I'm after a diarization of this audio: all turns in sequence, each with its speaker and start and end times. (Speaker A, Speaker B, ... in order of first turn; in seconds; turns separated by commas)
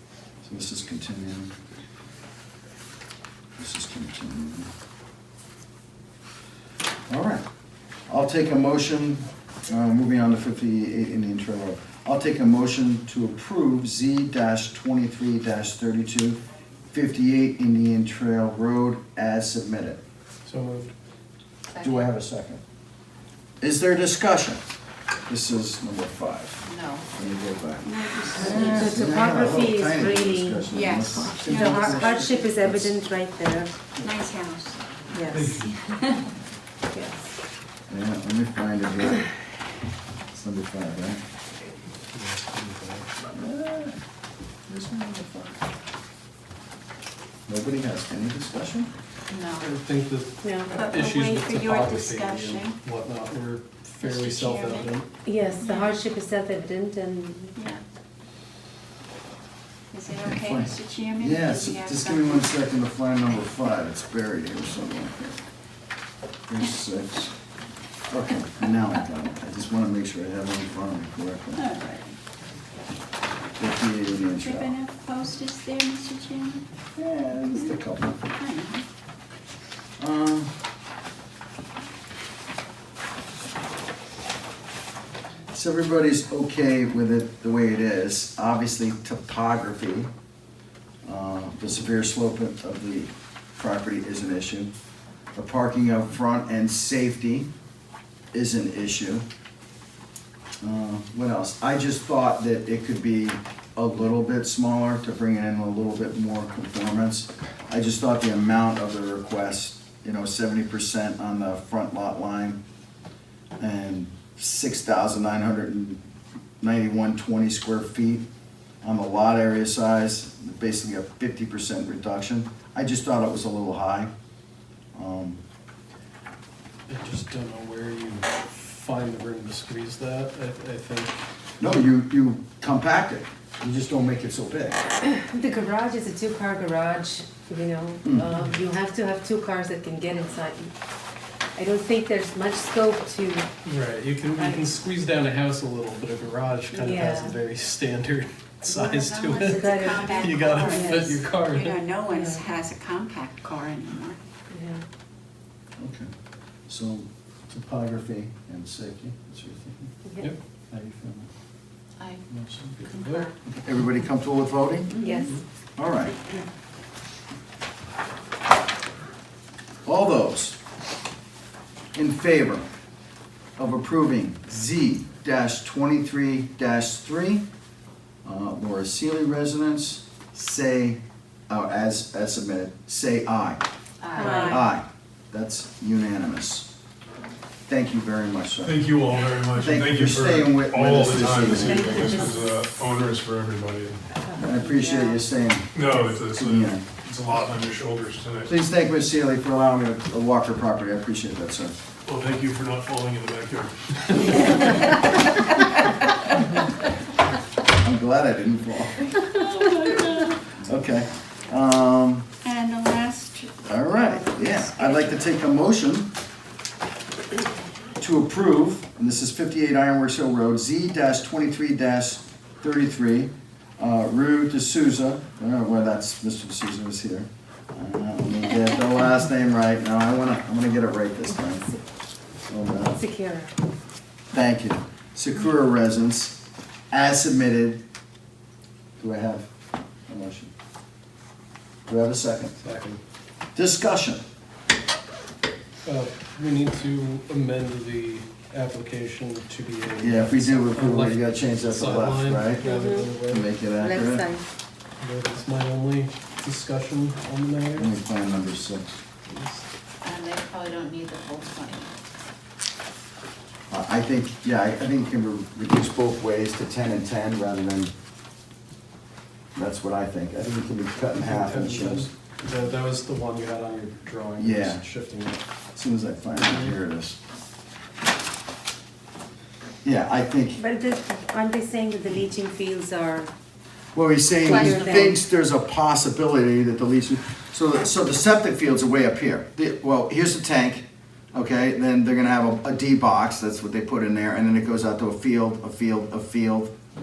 Speaker A: 0.4-1.5, Speaker A: 3.6-4.7, Speaker A: 7.1-7.5, Speaker A: 8.1-16.4, Speaker A: 16.9-20.0, Speaker B: 20.4-20.9, Speaker C: 21.7-22.1, Speaker A: 21.8-22.6, Speaker A: 23.6-24.6, Speaker A: 25.3-32.9, Speaker C: 26.7-27.1, Speaker C: 27.8-29.1, Speaker D: 28.4-30.7, Speaker C: 30.7-32.4, Speaker D: 31.4-33.8, Speaker C: 34.0-34.8, Speaker D: 35.1-35.7, Speaker E: 35.3-35.6, Speaker C: 35.7-36.3, Speaker D: 36.9-37.3, Speaker A: 37.9-39.3, Speaker A: 40.3-41.2, Speaker B: 42.1-43.1, Speaker A: 43.3-44.0, Speaker A: 44.7-45.6, Speaker A: 47.5-48.9, Speaker C: 49.3-49.7, Speaker B: 49.6-55.1, Speaker D: 50.4-50.7, Speaker C: 50.7-52.8, Speaker C: 54.0-54.9, Speaker D: 55.2-57.5, Speaker C: 55.6-56.0, Speaker C: 57.5-57.8, Speaker C: 59.9-62.5, Speaker A: 60.2-65.4, Speaker A: 66.5-67.3, Speaker A: 68.1-71.6, Speaker C: 71.5-72.1, Speaker A: 73.6-74.7, Speaker C: 74.4-76.6, Speaker A: 77.0-78.2, Speaker C: 78.3-78.8, Speaker A: 80.0-80.5, Speaker A: 85.5-90.1, Speaker A: 91.0-94.7, Speaker A: 95.3-97.5, Speaker A: 98.3-99.2, Speaker A: 100.6-112.6, Speaker A: 113.6-116.0, Speaker A: 116.6-118.2, Speaker A: 118.8-124.1, Speaker A: 124.9-125.4, Speaker B: 126.9-131.2, Speaker A: 131.6-134.8, Speaker D: 135.0-140.7, Speaker A: 138.0-138.3, Speaker D: 141.5-143.5, Speaker B: 143.6-151.8, Speaker D: 144.4-144.7, Speaker D: 146.7-147.3, Speaker C: 148.6-154.2, Speaker D: 149.4-151.2, Speaker D: 152.1-152.4, Speaker D: 154.5-154.8, Speaker A: 155.8-156.1, Speaker A: 156.7-159.9, Speaker A: 160.7-161.3, Speaker A: 162.3-162.8, Speaker B: 162.8-163.3, Speaker C: 162.8-163.3, Speaker A: 163.5-165.0, Speaker D: 164.9-165.3, Speaker A: 165.8-166.2, Speaker A: 169.8-170.6, Speaker A: 171.9-172.7, Speaker A: 173.6-177.4, Speaker A: 178.2-183.6, Speaker C: 184.0-184.6, Speaker D: 184.2-184.6, Speaker A: 184.2-186.7, Speaker A: 187.7-188.8, Speaker E: 188.6-194.0, Speaker A: 189.5-192.1, Speaker D: 191.2-192.4, Speaker D: 194.1-195.2, Speaker A: 194.4-196.8, Speaker E: 195.7-198.5, Speaker A: 198.4-201.7, Speaker E: 202.1-204.5, Speaker A: 207.7-209.2, Speaker C: 209.3-210.3, Speaker A: 210.5-212.3, Speaker C: 212.4-215.2, Speaker A: 213.7-216.1, Speaker A: 218.0-231.7, Speaker A: 232.5-233.0, Speaker D: 232.9-233.5, Speaker A: 234.3-237.8, Speaker A: 239.0-239.5, Speaker A: 240.1-240.5, Speaker A: 241.8-242.6, Speaker B: 242.6-243.0, Speaker A: 243.5-244.2, Speaker B: 245.8-253.5, Speaker A: 250.0-252.7, Speaker D: 252.6-253.1, Speaker A: 253.2-254.3, Speaker D: 253.8-254.4, Speaker B: 255.0-258.0, Speaker A: 257.8-259.0, Speaker B: 259.3-259.6, Speaker C: 260.0-261.9, Speaker A: 263.7-267.9, Speaker A: 269.5-272.1, Speaker B: 271.2-275.4, Speaker A: 274.4-274.8, Speaker A: 275.7-277.2, Speaker B: 276.3-276.7, Speaker A: 279.8-280.6, Speaker D: 280.6-283.3, Speaker A: 283.9-296.7, Speaker D: 284.4-285.2, Speaker C: 284.4-284.9